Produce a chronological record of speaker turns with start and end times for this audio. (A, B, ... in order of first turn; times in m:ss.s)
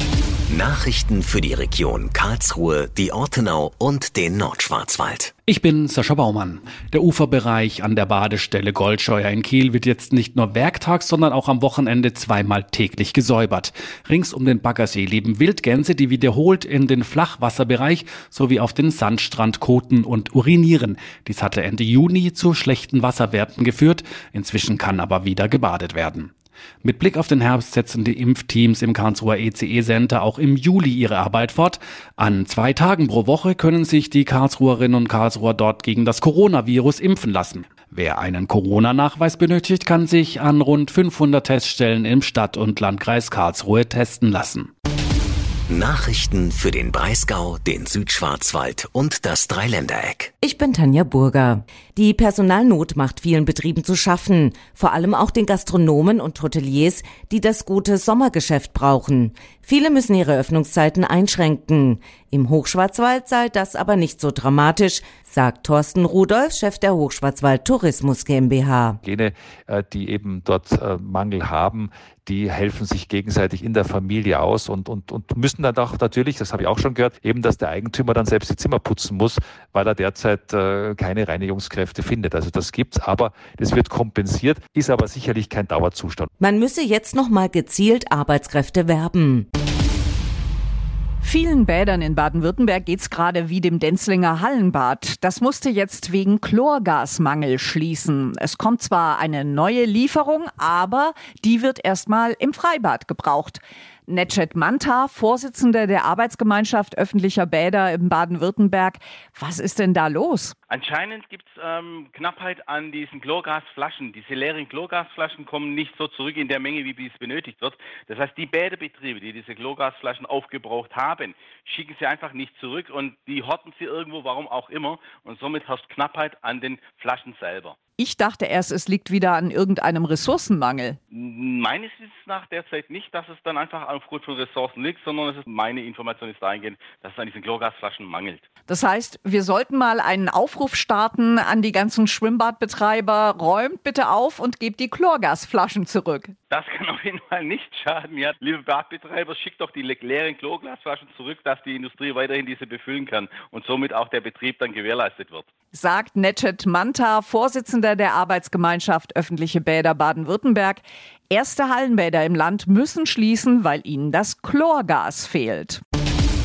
0:00.5-0:05.3 A
0:05.5-0:26.3 B
0:26.8-0:44.7 B
0:45.7-0:50.3 A
0:50.4-1:09.0 C
1:09.0-1:26.3 D
1:26.4-1:29.4 C
1:31.2-1:50.6 E
1:50.7-2:07.8 F
2:08.0-2:11.0 E
2:11.1-2:18.4 F
2:18.7-2:26.3 E
2:26.5-2:35.5 F
2:35.7-2:45.8 E